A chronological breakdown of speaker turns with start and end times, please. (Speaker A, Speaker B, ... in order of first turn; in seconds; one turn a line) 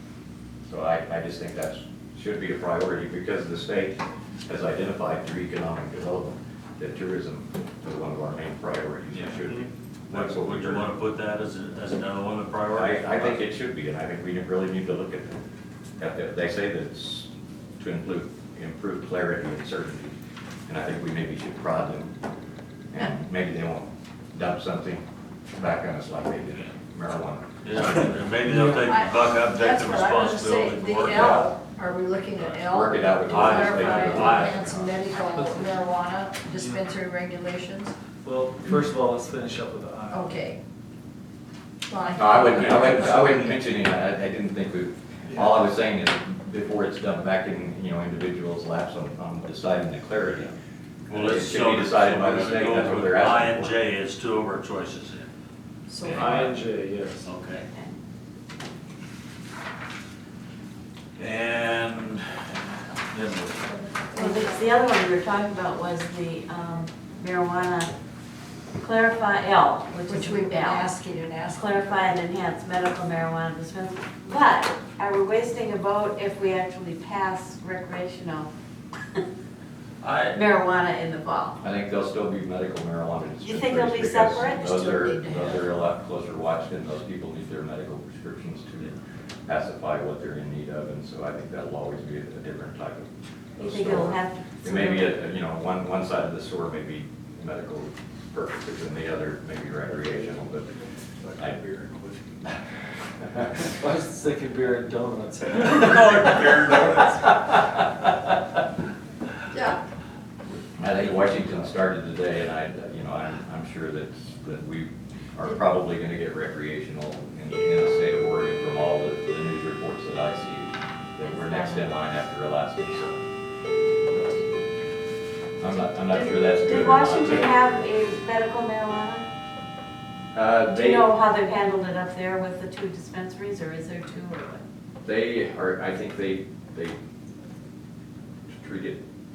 Speaker A: 0.7-10.9
Speaker B: 9.1-9.5
Speaker B: 10.1-13.4
Speaker A: 12.7-15.4
Speaker A: 16.0-20.1
Speaker A: 20.7-22.1
Speaker A: 22.9-28.1
Speaker B: 27.6-31.5
Speaker C: 28.4-28.9
Speaker D: 28.7-37.9
Speaker A: 32.4-35.0
Speaker B: 33.3-34.7
Speaker C: 38.2-40.3
Speaker D: 40.1-40.6
Speaker D: 41.9-43.6
Speaker A: 42.1-50.5
Speaker B: 51.1-55.3
Speaker A: 51.1-53.7
Speaker D: 55.9-56.5
Speaker B: 56.0-56.5
Speaker C: 56.0-57.3
Speaker B: 57.2-57.7
Speaker B: 61.2-63.7
Speaker D: 64.1-64.7
Speaker E: 64.1-67.9
Speaker E: 68.8-70.9
Speaker D: 70.1-72.1
Speaker E: 71.5-78.5
Speaker B: 80.0-80.4
Speaker E: 80.3-81.6
Speaker A: 81.6-100.7
Speaker E: 83.4-84.7
Speaker D: 84.4-85.7
Speaker E: 93.6-95.1
Speaker A: 101.3-101.8
Speaker C: 103.7-107.3
Speaker B: 105.7-107.0
Speaker D: 109.5-109.8
Speaker A: 110.8-123.1
Speaker E: 121.2-122.0
Speaker A: 125.6-127.5
Speaker E: 126.1-129.2
Speaker A: 130.3-131.1
Speaker E: 130.7-134.6
Speaker A: 135.0-136.9
Speaker A: 138.5-139.0